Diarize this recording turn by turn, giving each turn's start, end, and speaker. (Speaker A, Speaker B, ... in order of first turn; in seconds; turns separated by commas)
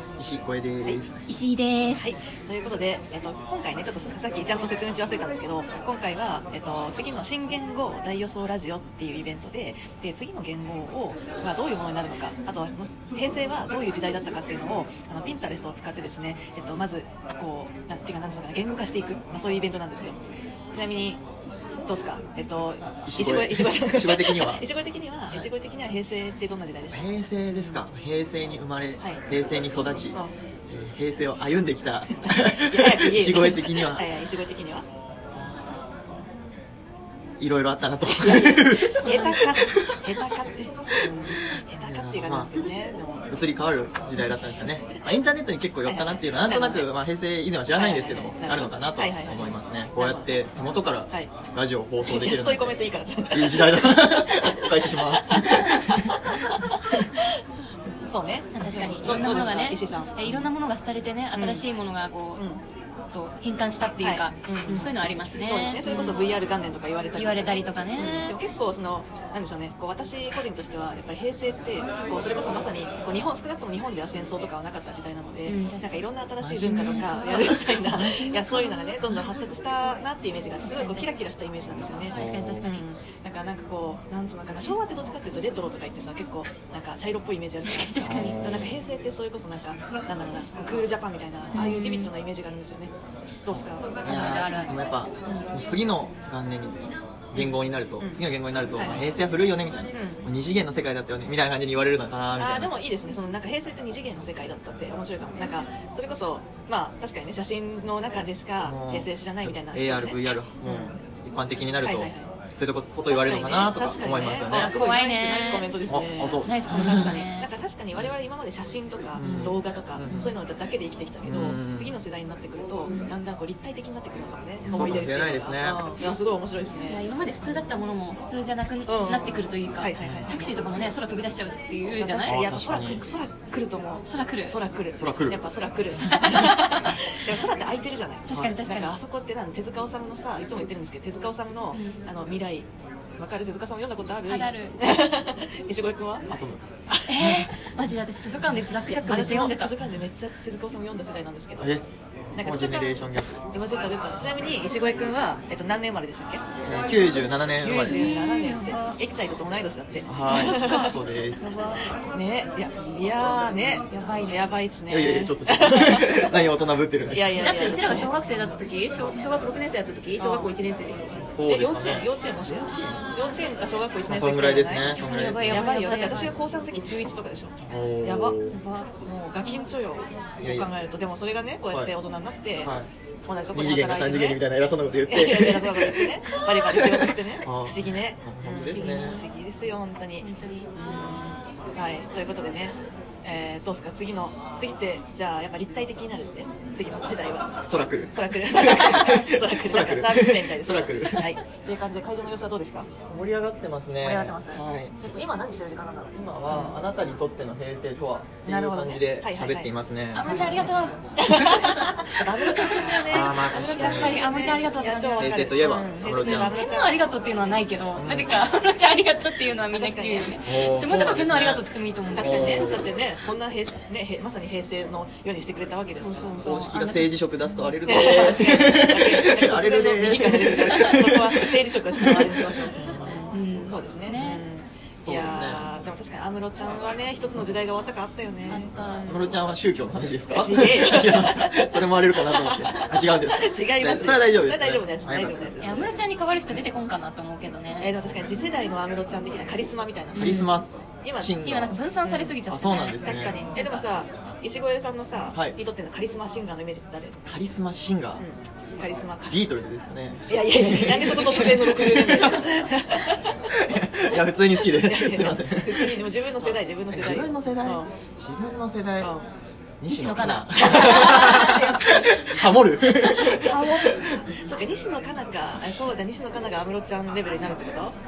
Speaker A: 0.2-1.2, Speaker B: 1.3-2.1, Speaker C: 1.9-20.2, Speaker C: 20.7-21.2, Speaker C: 21.9-27.1, Speaker A: 23.0-24.6, Speaker A: 26.9-30.2, Speaker A: 30.7-34.1, Speaker C: 32.1-34.9, Speaker A: 37.4-40.3, Speaker C: 38.1-43.3, Speaker B: 38.6-39.5, Speaker A: 41.8-42.5, Speaker A: 43.3-52.8, Speaker C: 45.8-46.9, Speaker C: 47.7-50.3, Speaker C: 51.1-51.3, Speaker C: 52.0-57.2, Speaker A: 53.3-56.2, Speaker C: 58.0-60.4, Speaker B: 58.5-62.4, Speaker C: 61.3-61.6, Speaker B: 63.1-66.3, Speaker C: 64.0-93.9, Speaker B: 67.1-68.3, Speaker B: 75.5-76.0, Speaker A: 76.4-78.4, Speaker B: 76.7-77.1, Speaker B: 80.6-81.2, Speaker A: 82.1-82.7, Speaker B: 82.1-82.8, Speaker B: 87.6-88.4, Speaker A: 88.0-88.8, Speaker B: 91.5-92.1, Speaker A: 93.5-102.7, Speaker B: 94.0-94.7, Speaker C: 97.3-98.2, Speaker C: 98.8-99.1, Speaker C: 99.9-100.2, Speaker C: 102.4-111.0, Speaker A: 108.6-114.7, Speaker C: 111.8-112.3, Speaker C: 113.1-127.0, Speaker B: 114.5-115.7, Speaker A: 115.9-117.1, Speaker B: 116.4-117.5, Speaker A: 119.2-120.3, Speaker B: 119.2-119.6, Speaker B: 120.1-120.3, Speaker A: 121.2-122.0, Speaker A: 124.6-125.8, Speaker B: 124.7-125.0, Speaker B: 126.8-132.4, Speaker C: 128.9-130.5, Speaker A: 130.0-130.4, Speaker C: 131.9-146.3, Speaker A: 132.2-133.0, Speaker B: 134.0-134.6, Speaker A: 134.9-135.4, Speaker B: 136.0-137.0, Speaker B: 138.3-138.9, Speaker A: 138.3-138.6, Speaker B: 141.7-142.0, Speaker B: 144.3-144.7, Speaker A: 146.3-146.6, Speaker C: 146.9-147.4, Speaker B: 147.1-149.7, Speaker C: 148.8-151.7, Speaker A: 151.6-153.4, Speaker C: 152.3-153.0, Speaker C: 153.5-156.4, Speaker A: 156.6-158.1, Speaker C: 157.6-160.9, Speaker B: 157.8-158.9, Speaker A: 160.1-161.5, Speaker B: 160.3-161.8, Speaker C: 162.0-166.4, Speaker B: 163.9-164.5, Speaker A: 164.9-168.1, Speaker C: 167.1-168.2, Speaker B: 167.4-171.2, Speaker C: 170.2-170.5, Speaker A: 171.2-172.1, Speaker C: 171.4-178.4, Speaker B: 172.7-172.9, Speaker A: 174.1-176.1, Speaker B: 174.8-176.4, Speaker A: 177.7-178.6, Speaker B: 178.5-178.9, Speaker C: 179.0-182.7, Speaker A: 180.4-180.7, Speaker A: 182.6-182.9, Speaker C: 183.2-184.4, Speaker A: 183.5-189.2, Speaker C: 185.0-197.6, Speaker B: 188.6-189.3, Speaker B: 190.2-190.7, Speaker A: 197.6-201.3, Speaker C: 198.1-202.9, Speaker A: 203.1-204.9, Speaker C: 204.0-206.7, Speaker A: 206.1-210.7, Speaker C: 208.4-209.7, Speaker B: 210.1-212.0, Speaker C: 210.2-217.0, Speaker A: 213.1-214.2, Speaker B: 213.5-215.3, Speaker A: 215.2-216.6, Speaker B: 216.2-222.7, Speaker A: 218.0-218.4, Speaker C: 219.7-220.4, Speaker A: 220.4-221.6, Speaker C: 222.1-226.5, Speaker A: 222.2-222.9, Speaker B: 225.9-227.8, Speaker A: 226.4-233.2, Speaker C: 227.8-239.2, Speaker B: 232.8-234.4, Speaker A: 235.0-235.7, Speaker B: 238.5-239.2, Speaker A: 239.1-245.3, Speaker C: 240.3-245.8, Speaker B: 245.6-247.9, Speaker C: 247.8-251.3, Speaker B: 250.1-250.5, Speaker A: 250.2-251.8, Speaker B: 251.4-253.8, Speaker C: 252.1-252.3, Speaker A: 252.4-253.4, Speaker C: 253.0-257.2, Speaker A: 257.2-258.2, Speaker C: 258.2-259.5, Speaker A: 259.3-262.8, Speaker C: 260.3-267.9, Speaker B: 261.0-261.5, Speaker A: 263.5-266.1, Speaker A: 266.9-269.1, Speaker C: 269.0-269.2, Speaker A: 269.8-274.2, Speaker B: 269.9-272.4, Speaker C: 270.5-271.9, Speaker C: 273.1-278.0